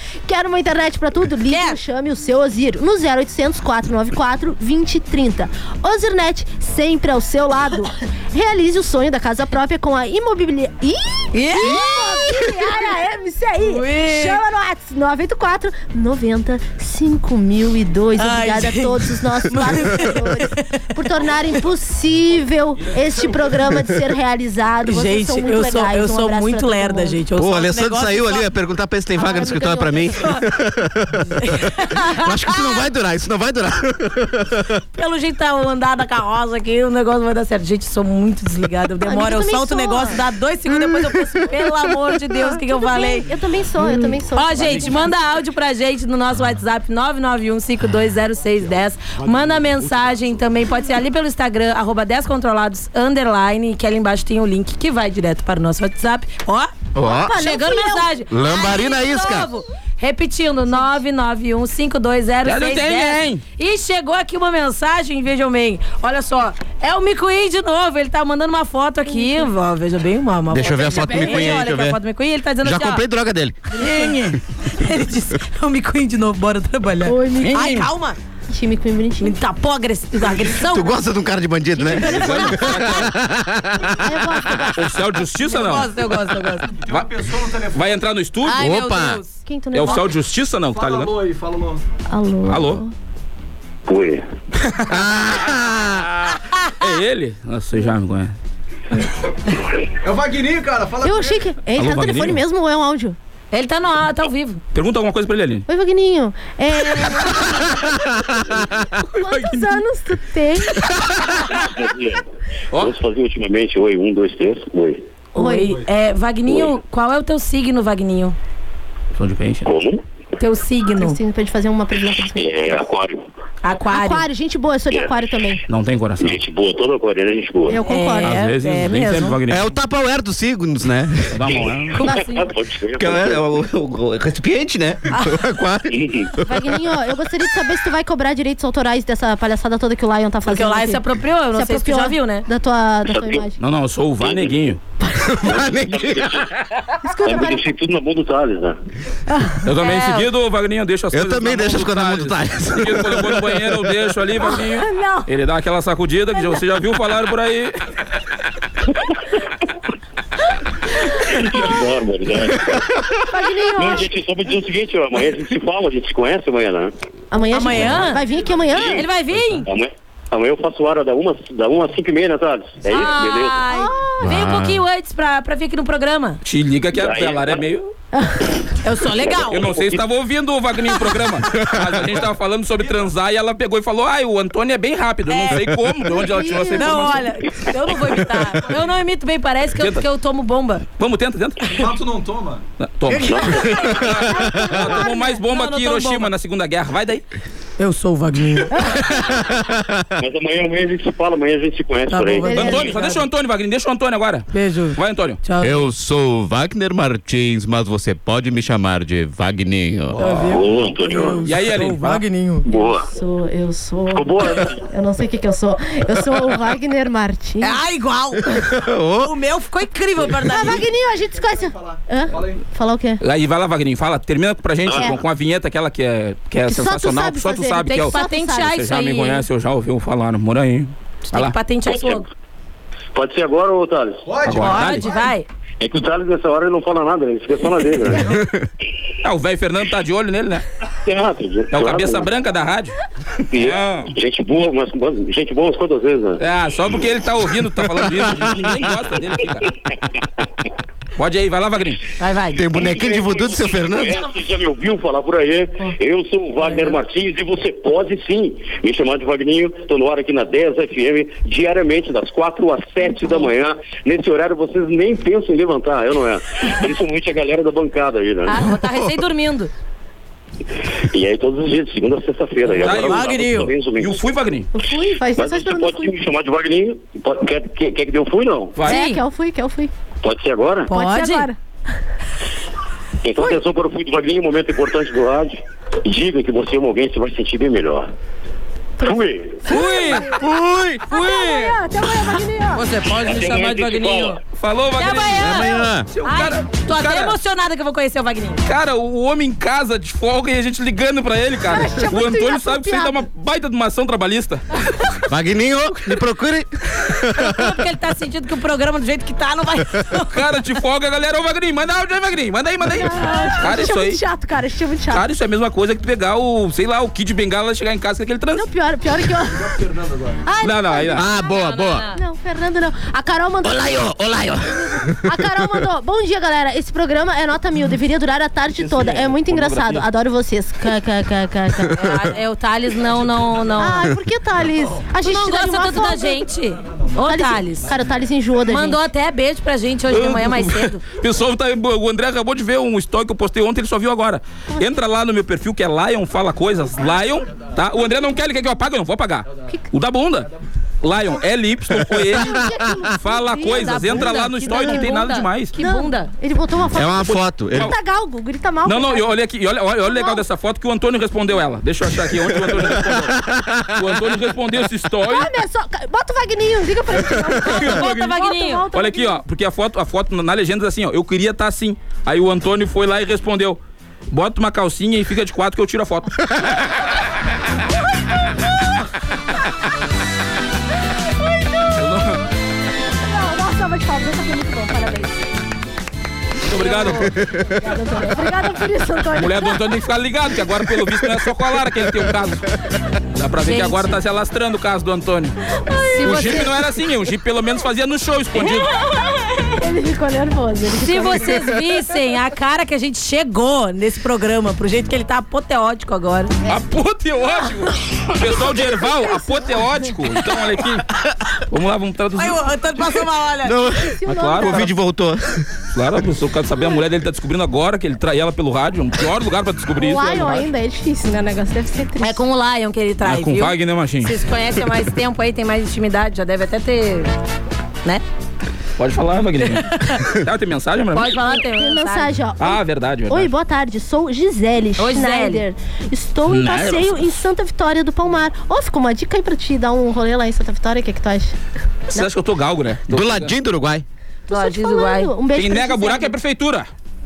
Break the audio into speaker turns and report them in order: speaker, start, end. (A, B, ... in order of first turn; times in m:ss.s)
0:00.2-0:27.2 A
0:01.5-0:01.8 B
0:11.3-0:12.9 B
0:13.6-0:14.4 B
0:18.2-0:20.8 B
0:24.9-0:28.5 B
0:27.4-0:34.7 C
0:29.2-0:30.2 A
0:31.4-0:32.6 B
0:34.9-0:43.3 B
0:39.0-0:40.2 A
0:42.3-0:45.2 A
0:43.8-0:56.7 B
0:49.4-0:50.0 D
0:56.9-0:57.4 C
0:57.0-0:58.1 A
0:57.3-1:13.0 B
0:58.3-0:59.5 C
1:02.4-1:03.4 E
1:09.1-1:09.5 A
1:10.5-1:12.0 C
1:12.6-1:13.6 C
1:13.7-1:18.2 B
1:17.0-1:17.8 A
1:18.5-1:19.4 A
1:19.2-1:21.0 B
1:20.4-1:24.0 C
1:21.8-1:22.7 B
1:21.9-1:23.1 E
1:23.9-1:25.0 A
1:24.7-1:25.9 E
1:25.5-1:26.7 B
1:26.7-1:28.0 D
1:27.7-1:28.7 E
1:28.4-1:29.4 B
1:28.6-1:29.2 C
1:29.4-1:30.1 A
1:29.7-1:31.1 E
1:30.7-1:31.8 D
1:32.1-1:32.9 A
1:32.4-1:32.8 E
1:33.9-1:34.2 F
1:34.9-1:36.1 C
1:36.8-1:38.3 E
1:40.0-1:41.4 D
1:41.0-1:43.2 A
1:41.8-1:42.4 E
1:43.5-1:44.6 B
1:44.7-1:45.6 E
1:45.7-1:50.9 A
1:49.3-1:49.6 E
1:51.5-1:52.2 F
1:52.7-1:55.0 F
1:55.3-1:58.4 B
1:55.4-1:55.8 A
1:59.2-1:59.7 E
1:59.6-2:00.0 F
2:00.4-2:01.2 B
2:01.0-2:02.8 A
2:02.4-2:03.2 F
2:03.6-2:04.2 B
2:03.9-2:05.6 A
2:05.7-2:06.4 E
2:06.2-2:07.8 F
2:07.7-2:08.4 A
2:07.8-2:09.4 B
2:08.2-2:09.7 E
2:09.5-2:11.6 C
2:11.3-2:12.0 E
2:11.5-2:13.4 F
2:11.9-2:12.5 B
2:13.0-2:16.7 C
2:15.9-2:16.3 F
2:16.4-2:21.0 A
2:20.5-2:22.4 B
2:21.5-2:23.6 A
2:23.1-2:23.4 F
2:23.6-2:24.8 E
2:24.2-2:24.7 F
2:25.0-2:25.4 A
2:25.3-2:26.3 C
2:25.4-2:26.5 F
2:27.0-2:27.6 A
2:27.2-2:28.8 F
2:29.3-2:29.6 A
2:29.6-2:37.8 E
2:29.8-2:30.2 B
2:31.1-2:33.6 C
2:34.4-2:35.3 A
2:36.3-2:36.6 A
2:41.2-2:42.8 F
2:43.3-2:44.1 A
2:43.8-2:46.9 F
2:47.3-2:49.0 A
2:47.5-2:48.2 B
2:48.7-2:49.0 F
2:48.9-2:49.7 B
2:49.6-2:53.6 F
2:52.8-2:56.4 B
2:53.7-2:54.3 A
2:54.2-2:54.8 C
2:56.4-2:57.9 E
2:56.9-2:57.6 F
2:58.1-2:58.4 A
2:58.8-2:59.7 B
2:59.1-3:00.0 F
2:59.5-3:07.3 E
3:02.8-3:03.1 D
3:05.3-3:05.6 B
3:06.1-3:07.3 A
3:06.7-3:10.8 B
3:11.0-3:11.7 E
3:11.7-3:12.6 D
3:12.8-3:17.2 E
3:13.1-3:14.0 B
3:13.2-3:14.0 F
3:14.1-3:15.4 A
3:14.9-3:16.3 B
3:17.8-3:19.0 B
3:19.1-3:20.0 C
3:20.2-3:22.6 F
3:22.1-3:23.2 B
3:22.4-3:23.0 A
3:22.5-3:25.4 E
3:24.5-3:25.8 B
3:25.6-3:30.3 C
3:30.2-3:32.7 B
3:30.5-3:31.4 F
3:31.4-3:32.2 E
3:32.6-3:33.1 F
3:33.1-3:37.8 A
3:34.1-3:34.8 F
3:37.6-3:38.7 B
3:38.5-3:39.3 C
3:39.2-3:40.8 B
3:40.4-3:43.2 A
3:41.5-3:42.6 D
3:43.2-3:51.5 E
3:44.8-3:45.1 F
3:44.9-3:45.2 A
3:46.7-3:48.7 A
3:47.9-3:49.4 B
3:51.3-3:52.2 B
3:51.9-3:52.2 F
3:53.1-3:54.3 F
3:54.2-3:55.0 D
3:54.4-3:55.1 E
3:54.6-3:55.4 B
3:55.8-3:58.3 F
3:58.2-3:58.6 C
3:59.2-4:00.6 E
4:01.0-4:02.3 F
4:01.7-4:03.0 E
4:03.5-4:06.4 F
4:03.5-4:04.1 E
4:06.4-4:09.7 E
4:08.0-4:08.7 C
4:11.2-4:12.0 E
4:12.2-4:12.6 B
4:12.6-4:14.2 C
4:12.7-4:28.6 F
4:28.4-4:29.7 B
4:31.1-4:34.2 F
4:32.8-4:33.4 E
4:32.9-4:33.7 B
4:34.0-4:34.7 E
4:34.7-4:36.1 A
4:35.4-4:38.8 F
4:38.7-4:39.0 E
4:38.8-4:39.9 A
4:38.8-4:39.2 B
4:40.2-4:40.9 F
4:40.9-4:41.5 B
4:40.9-4:41.6 A
4:43.2-4:48.1 F
4:49.0-4:49.6 F
4:49.0-4:50.4 A
4:49.7-4:50.2 B
4:50.3-4:51.0 C
4:51.1-4:52.8 A
4:52.8-4:54.4 B
4:53.2-4:54.4 F
4:54.6-4:57.3 E
4:55.0-4:58.6 B
4:55.4-4:56.1 C
4:58.6-5:04.6 E
5:01.6-5:03.2 A
5:05.3-5:07.7 C
5:07.3-5:10.4 B
5:10.3-5:14.2 E
5:12.8-5:15.2 A
5:15.1-5:18.7 E
5:18.5-5:19.7 A
5:19.5-5:20.4 D
5:20.4-5:21.3 A
5:20.6-5:21.2 E
5:21.1-5:22.0 C
5:21.3-5:22.2 B
5:22.1-5:24.0 A
5:23.6-5:25.3 C
5:24.8-5:32.1 A
5:28.7-5:30.0 E
5:31.9-5:34.1 B
5:33.8-5:36.5 A
5:35.2-5:37.9 B
5:37.2-5:39.0 A
5:38.7-5:41.0 B
5:40.1-5:50.5 E
5:51.0-5:55.7 E
5:52.1-5:52.9 C
5:52.3-5:55.1 A
5:53.7-5:56.3 B
5:55.8-5:59.3 A
5:56.9-5:57.9 C
5:57.2-5:57.9 E
5:58.8-6:05.5 E
6:00.0-6:00.4 A
6:02.3-6:04.0 C
6:05.3-6:09.4 A
6:07.6-6:08.3 E
6:07.6-6:08.8 B
6:08.9-6:16.4 E
6:22.0-6:22.4 E
6:23.2-6:25.4 A
6:26.7-6:27.3 E
6:26.8-6:29.8 A
6:26.8-6:27.2 B
6:29.4-6:32.6 E
6:33.3-6:35.6 E
6:33.6-6:34.1 B
6:35.8-6:36.6 A
6:36.1-6:36.8 B
6:36.2-6:38.9 E
6:39.8-6:41.8 A
6:41.0-6:46.6 B
6:46.6-6:51.1 E
6:48.6-6:50.0 A
6:51.7-6:52.6 E
6:52.4-6:53.8 B
6:53.6-6:55.6 C
6:54.0-6:54.9 A
6:54.2-6:54.9 E
6:55.9-7:00.7 E
7:00.0-7:02.4 A
7:02.2-7:07.3 B
7:03.2-7:04.4 E
7:09.0-7:11.4 E
7:09.7-7:10.3 B
7:11.1-7:12.3 B
7:11.3-7:21.6 A
7:12.6-7:13.5 E
7:15.0-7:15.6 B
7:16.5-7:17.4 E
7:22.1-7:23.5 E
7:23.1-7:24.0 C
7:24.5-7:26.3 A
7:24.5-7:25.3 B
7:25.5-7:26.9 E